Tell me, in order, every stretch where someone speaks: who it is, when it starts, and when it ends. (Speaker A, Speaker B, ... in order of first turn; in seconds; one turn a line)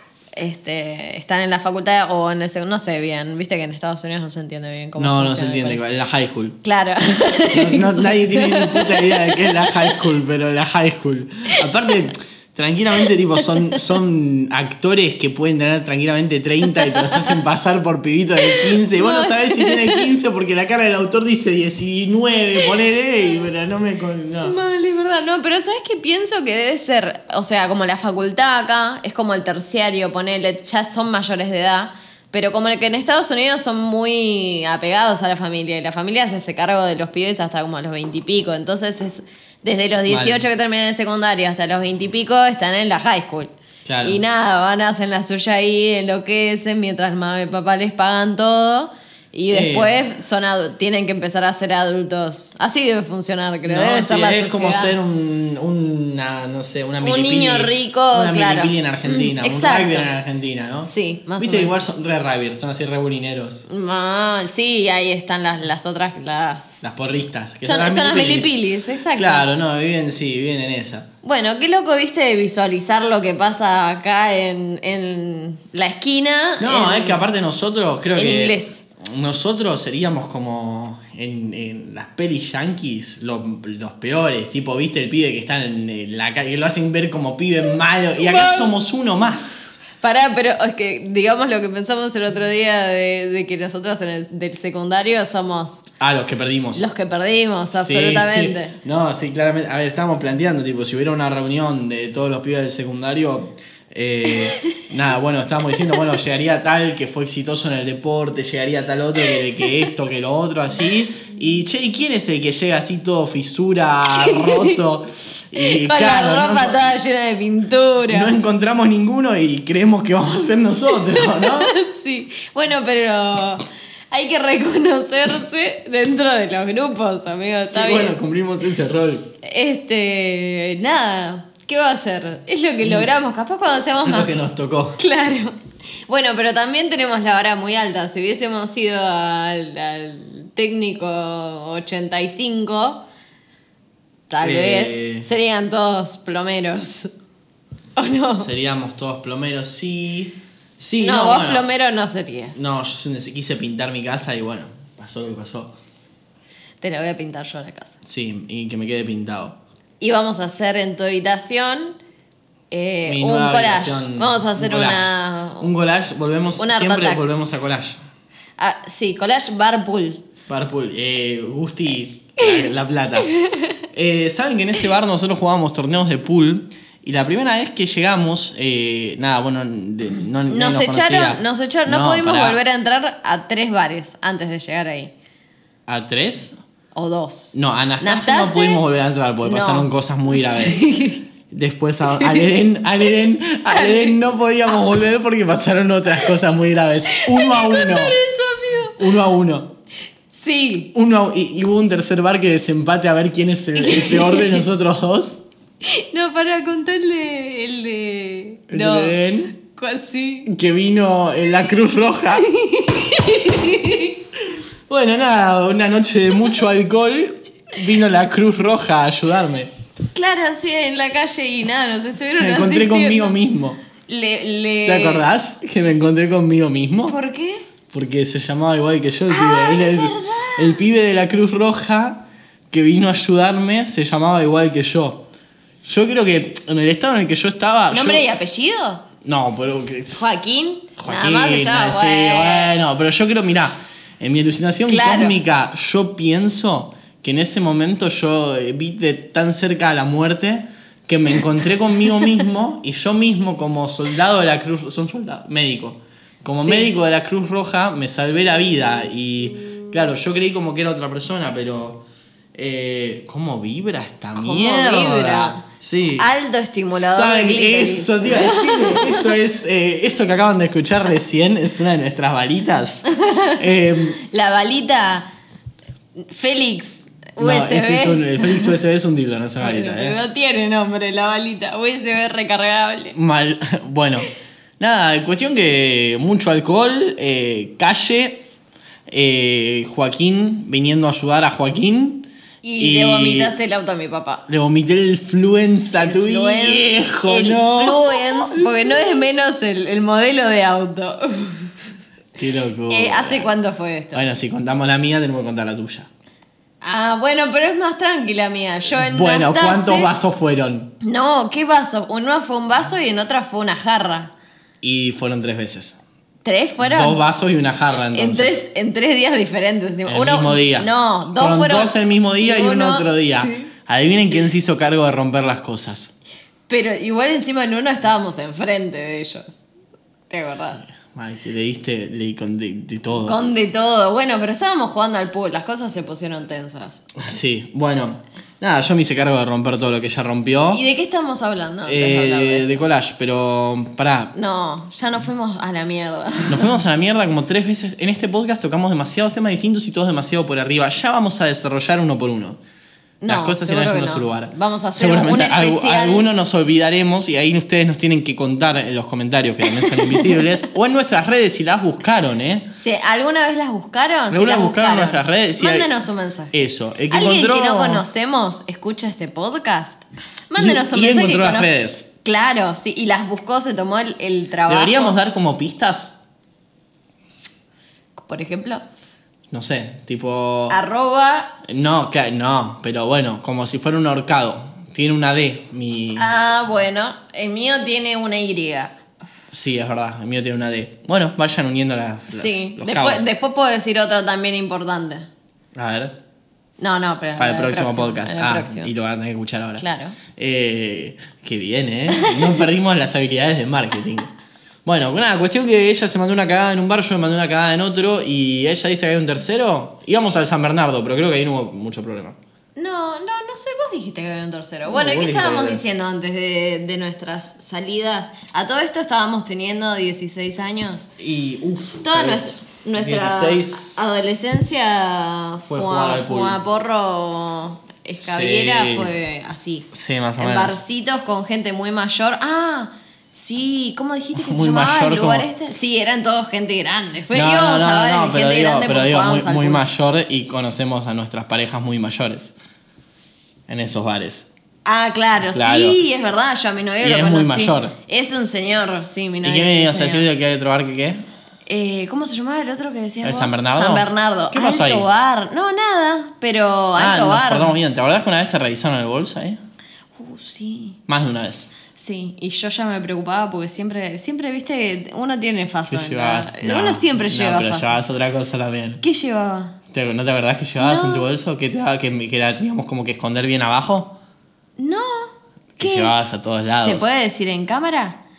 Speaker A: 0.3-5.8
Speaker B: 5.0-6.6
Speaker A: 6.6-10.0
Speaker B: 7.5-24.6
Speaker A: 13.4-13.8
Speaker A: 16.8-17.4
Speaker A: 18.4-20.1
Speaker A: 24.4-43.5
Speaker B: 40.1-40.4
Speaker B: 43.8-44.2
Speaker A: 44.0-54.9
Speaker B: 49.5-49.9
Speaker B: 53.6-63.6
Speaker A: 57.0-60.1
Speaker A: 60.9-61.7
Speaker A: 63.7-66.8
Speaker B: 66.8-68.6
Speaker A: 67.6-69.5
Speaker B: 69.1-71.1
Speaker A: 71.2-77.2
Speaker B: 76.6-89.7
Speaker A: 78.1-78.8
Speaker A: 88.2-88.7
Speaker A: 90.0-95.8
Speaker B: 96.0-96.8
Speaker A: 96.7-98.8
Speaker B: 97.7-116.9
Speaker A: 109.3-109.7
Speaker A: 114.1-114.8
Speaker A: 115.5-118.3
Speaker B: 118.1-121.7
Speaker A: 121.0-128.2
Speaker B: 127.7-129.3
Speaker A: 129.4-134.3
Speaker B: 132.8-133.1
Speaker B: 134.0-135.0
Speaker A: 135.0-143.0
Speaker A: 144.3-147.1
Speaker B: 144.4-145.3
Speaker A: 147.9-148.5
Speaker B: 148.3-151.7
Speaker A: 151.0-152.6
Speaker B: 152.5-155.7
Speaker A: 156.8-158.0
Speaker B: 158.0-159.6
Speaker A: 160.0-162.0
Speaker A: 162.7-165.7
Speaker B: 163.0-168.0
Speaker A: 166.6-167.2
Speaker A: 168.6-170.2
Speaker B: 170.5-173.3
Speaker A: 173.3-173.8
Speaker B: 173.9-182.6
Speaker A: 180.4-185.1
Speaker B: 185.9-186.6
Speaker A: 186.9-188.8
Speaker B: 187.5-190.9
Speaker A: 189.4-191.2
Speaker B: 191.5-198.2
Speaker A: 192.1-192.6
Speaker A: 193.7-194.2
Speaker A: 197.1-199.0
Speaker B: 199.0-199.7
Speaker A: 200.3-200.9
Speaker B: 200.9-205.4
Speaker A: 203.8-204.6
Speaker A: 205.8-210.5
Speaker B: 208.7-209.5
Speaker B: 210.4-212.5
Speaker A: 212.3-214.2
Speaker B: 214.9-219.7
Speaker A: 220.1-223.4
Speaker B: 222.4-223.8
Speaker A: 224.0-225.3
Speaker B: 224.8-227.2
Speaker A: 227.1-227.6
Speaker B: 227.9-235.2
Speaker A: 229.3-230.8
Speaker B: 235.8-238.2
Speaker A: 237.9-239.0
Speaker B: 239.2-240.3
Speaker A: 240.1-242.7
Speaker B: 241.0-262.0
Speaker A: 244.9-245.4
Speaker A: 256.6-256.9
Speaker B: 262.5-266.3
Speaker A: 264.3-265.6
Speaker A: 266.2-269.3
Speaker B: 266.9-274.2
Speaker A: 273.1-275.2
Speaker A: 276.1-278.8
Speaker B: 277.4-280.2
Speaker A: 279.6-283.1
Speaker B: 283.1-284.3
Speaker B: 284.8-288.4
Speaker B: 289.1-292.3
Speaker A: 292.6-294.4
Speaker B: 292.8-293.5
Speaker B: 294.5-299.2
Speaker A: 296.0-301.7
Speaker B: 302.4-303.5
Speaker A: 302.9-304.3
Speaker B: 304.1-306.1
Speaker A: 306.8-310.1
Speaker B: 308.9-310.9
Speaker A: 311.0-314.3
Speaker B: 314.8-316.0
Speaker A: 316.4-317.2
Speaker B: 316.8-318.6
Speaker A: 318.1-323.7
Speaker B: 320.1-326.1
Speaker A: 326.7-329.6
Speaker A: 330.3-330.8
Speaker B: 330.9-333.4
Speaker A: 333.1-337.0
Speaker B: 337.1-340.8
Speaker A: 340.7-342.9
Speaker B: 341.8-344.3
Speaker A: 344.3-346.8
Speaker B: 346.5-352.6
Speaker A: 353.2-356.2
Speaker B: 353.3-362.7
Speaker A: 359.7-360.4
Speaker A: 362.8-366.6
Speaker B: 364.3-365.9
Speaker B: 366.5-368.0
Speaker A: 367.1-371.7
Speaker B: 370.6-372.1
Speaker A: 372.2-375.1
Speaker B: 374.7-376.2
Speaker A: 378.1-378.8
Speaker B: 379.5-380.8
Speaker A: 380.7-381.5
Speaker B: 381.6-386.3
Speaker A: 386.1-388.9
Speaker B: 389.5-393.3
Speaker A: 392.3-395.3
Speaker B: 395.7-396.1
Speaker A: 396.8-398.9
Speaker B: 397.4-404.3
Speaker A: 399.8-400.2
Speaker A: 402.1-402.6
Speaker B: 404.8-412.4
Speaker A: 412.8-421.1
Speaker B: 414.9-415.8
Speaker B: 421.2-424.3
Speaker A: 422.0-439.8
Speaker B: 425.7-426.6
Speaker B: 428.2-429.1
Speaker B: 429.9-430.8
Speaker B: 434.3-435.4
Speaker B: 437.3-442.5
Speaker B: 443.7-444.5
Speaker A: 444.8-450.3
Speaker B: 445.4-446.0
Speaker B: 447.0-447.9
Speaker B: 449.4-451.2
Speaker A: 451.7-457.7
Speaker B: 453.2-455.1
Speaker B: 456.9-459.6
Speaker A: 460.2-461.0
Speaker B: 461.1-461.7
Speaker A: 461.9-468.0
Speaker B: 465.9-469.0
Speaker A: 469.0-469.7
Speaker B: 469.9-474.1
Speaker A: 470.8-471.3
Speaker A: 474.8-476.1
Speaker B: 475.8-477.1
Speaker A: 476.8-478.2